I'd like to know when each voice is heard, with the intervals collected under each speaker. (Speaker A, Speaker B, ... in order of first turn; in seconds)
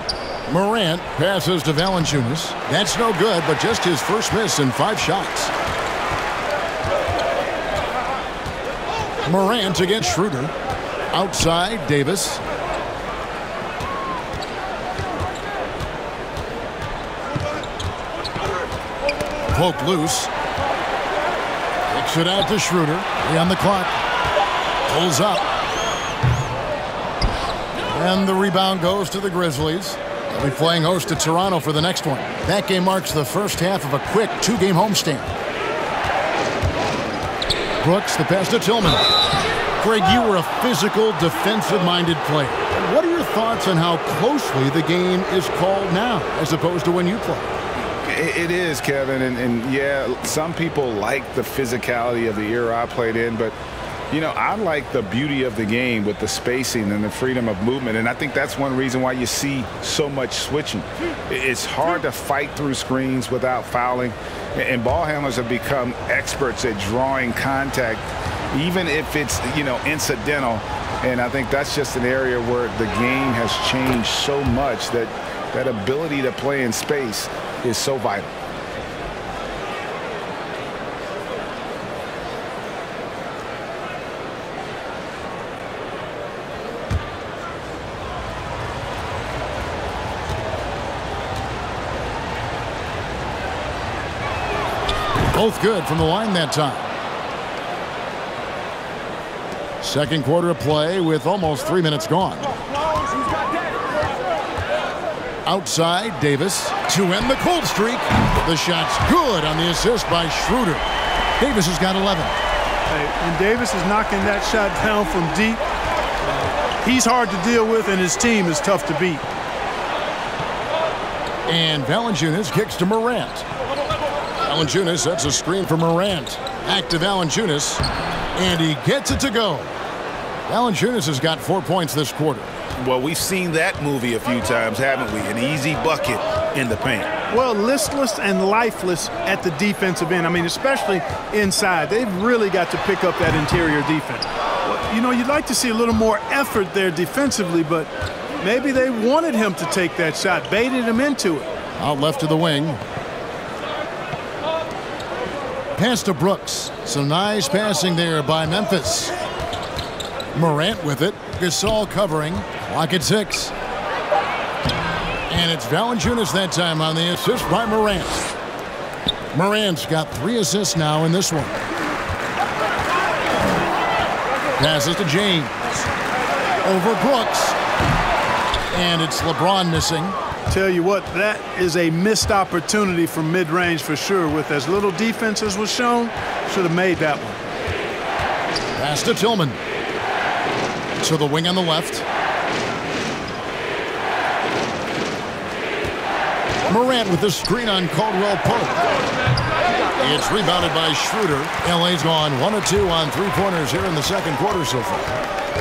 Speaker A: 0.5-5.5, 9.2-10.5, 11.1-12.4, 19.5-20.3, 21.9-23.9, 24.9-25.4, 27.9-35.3, 37.8-39.1, 39.8-47.5, 95.3-96.9, 99.8-102.5, 105.4-110.8, 111.4-112.3, 121.5-123.5, 124.4-127.8, 128.3-129.7, 130.5-132.5, 151.8-152.8, 155.8-159.1, 160.3-163.5, 165.3-168.2, 169.3-171.6, 174.6-175.9, 176.6-177.6, 178.7-180.1, 188.8-189.6, 191.0-192.0, 196.7-198.8, 199.9-205.2
Speaker B: 48.0-53.5, 54.1-78.3, 132.8-137.1
Speaker C: 112.9-115.6, 116.2-119.2, 137.3-151.5, 180.5-187.4